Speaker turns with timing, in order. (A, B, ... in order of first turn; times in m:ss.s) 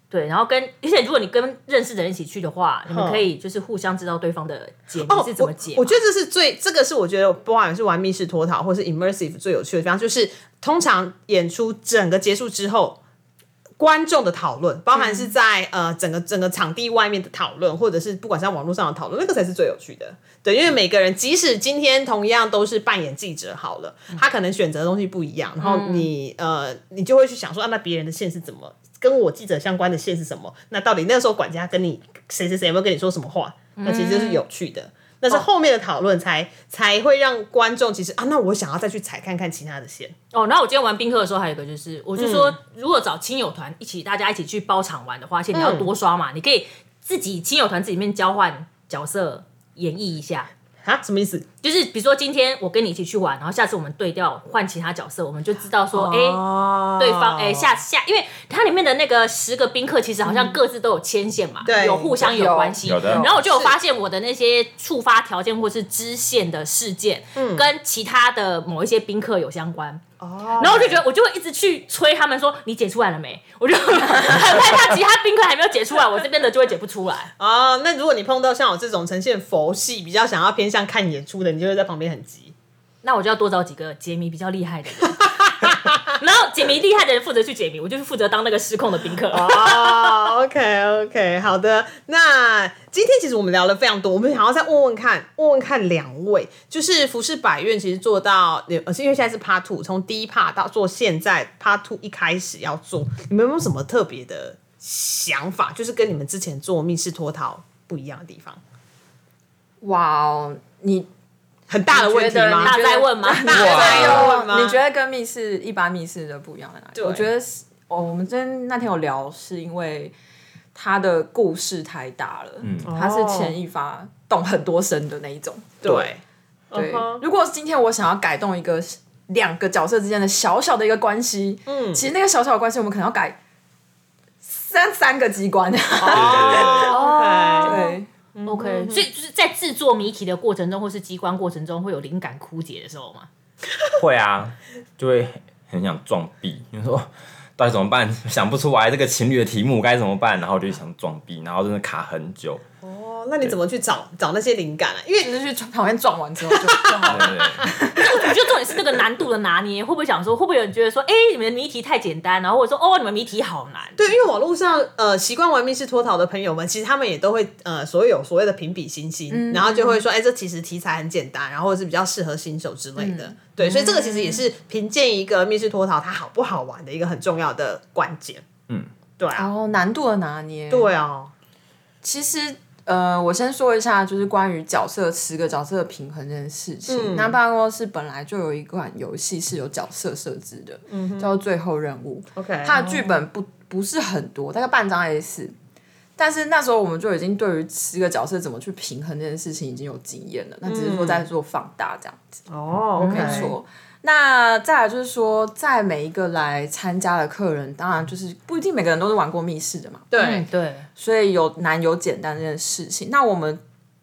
0:00.1-0:06.0 A
0:02.9-0:03.2 B
0:05.1-0:13.0 B
0:13.8-0:40.1 B
0:15.0-0:15.2 A
0:25.6-0:26.1 A
0:33.8-0:34.4 A
0:40.3-0:50.5 A
0:42.2-0:42.6 B
0:45.5-0:45.9 B
0:50.8-0:51.5 B
0:51.6-0:56.4 A
0:55.9-0:57.7 B
0:57.0-1:10.0 A
1:01.6-1:02.2 B
1:02.2-1:03.3 C
1:02.9-1:03.2 D
1:03.2-1:03.8 B
1:07.4-1:07.7 B
1:10.2-1:11.0 B
1:10.6-1:17.3 A
1:17.4-1:22.5 B
1:23.0-1:25.2 A
1:25.2-1:26.2 B
1:26.2-1:30.2 A
1:29.3-1:48.6 B
1:49.8-1:51.1 C
1:51.7-1:54.8 B
1:51.9-2:00.2 C
1:52.6-1:53.9 A
1:53.6-1:54.3 D
1:57.0-1:57.2 B
2:00.7-2:06.1 C
2:02.6-2:02.9 D
2:02.8-2:03.6 B
2:05.8-2:06.2 B
2:06.7-2:07.2 B
2:06.7-2:13.4 C
2:11.7-2:12.0 B
2:14.4-2:17.1 C
2:16.0-2:17.8 B
2:16.1-2:16.9 D
2:16.8-2:17.9 A
2:17.6-2:18.1 C
2:18.4-2:19.0 B
2:18.5-2:23.3 A
2:23.9-2:32.6 D
2:32.8-2:35.4 B
2:35.2-2:38.3 C
2:36.5-2:37.3 B
2:37.1-2:37.7 D
2:38.0-2:44.0 A
2:44.0-2:58.4 B
2:49.3-2:50.0 C
2:53.0-2:54.4 C
2:59.2-2:59.5 B
2:59.4-3:00.9 C
3:00.7-3:01.3 B
3:02.0-3:15.5 C
3:06.9-3:07.3 B
3:10.9-3:11.3 B
3:12.4-3:12.9 B
3:16.2-3:22.3 C
3:20.6-3:21.2 B
3:22.5-3:23.5 B
3:23.0-3:30.1 C
3:23.0-3:23.5 A
3:30.1-3:30.5 B
3:30.2-3:30.9 A
3:31.0-3:33.6 C